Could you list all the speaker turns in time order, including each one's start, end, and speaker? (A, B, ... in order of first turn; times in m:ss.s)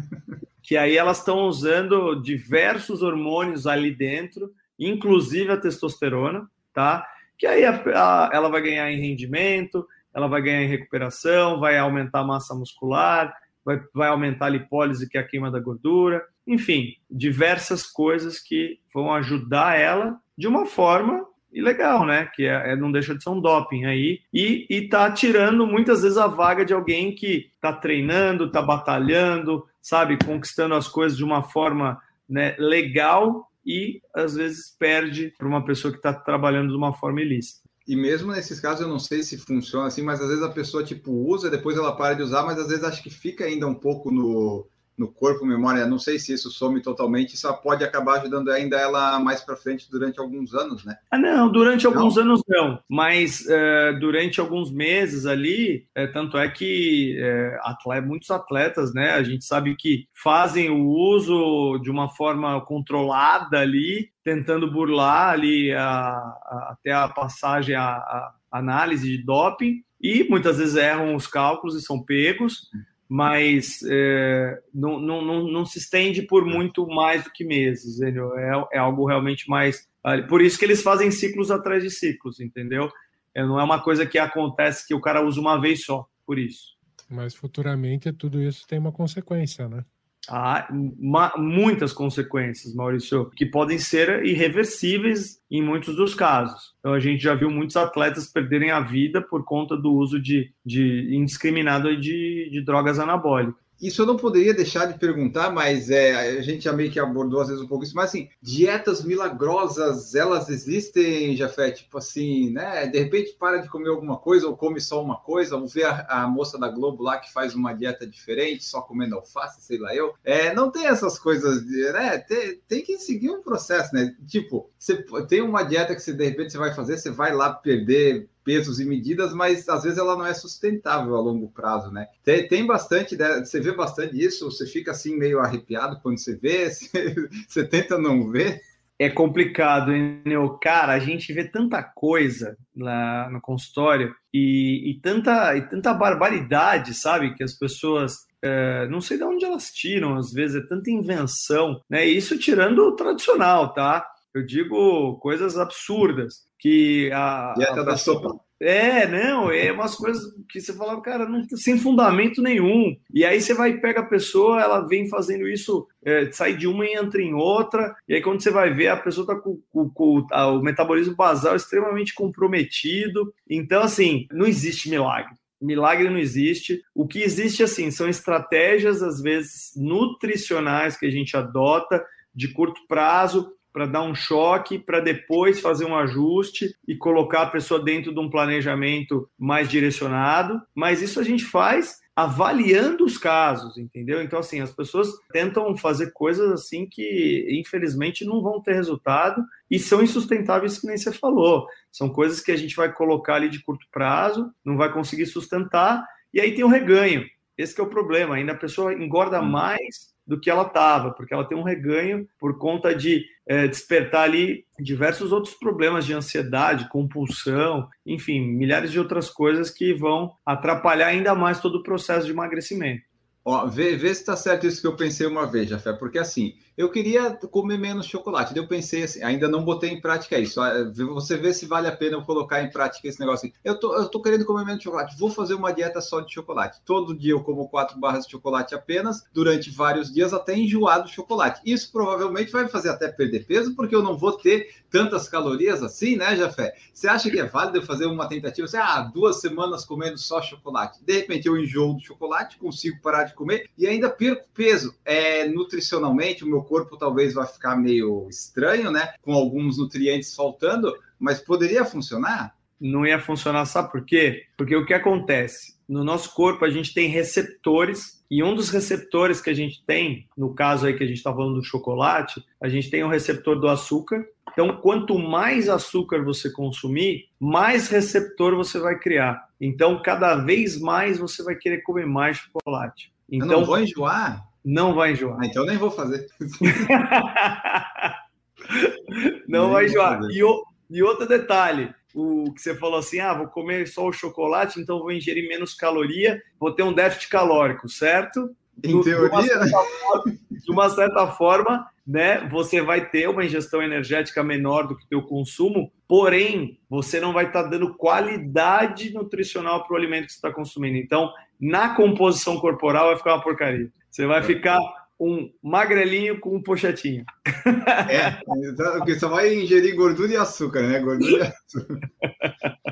0:00.6-0:37.6 A
0:37.9-0:51.0 B
0:51.1-1:26.7 A
1:27.1-1:29.9 C
1:30.3-1:43.6 A
1:43.8-2:18.6 B
2:19.0-3:43.0 A
2:37.6-2:38.4 B
3:43.4-4:22.5 B
4:22.8-4:43.7 A
4:43.4-4:44.5 B
4:44.6-4:45.4 A
4:45.4-4:46.9 B
4:46.6-4:48.1 A
4:48.7-5:18.4 A
4:49.5-4:50.4 B
4:58.8-4:59.8 B
5:18.1-5:22.0 B
5:22.4-5:22.7 A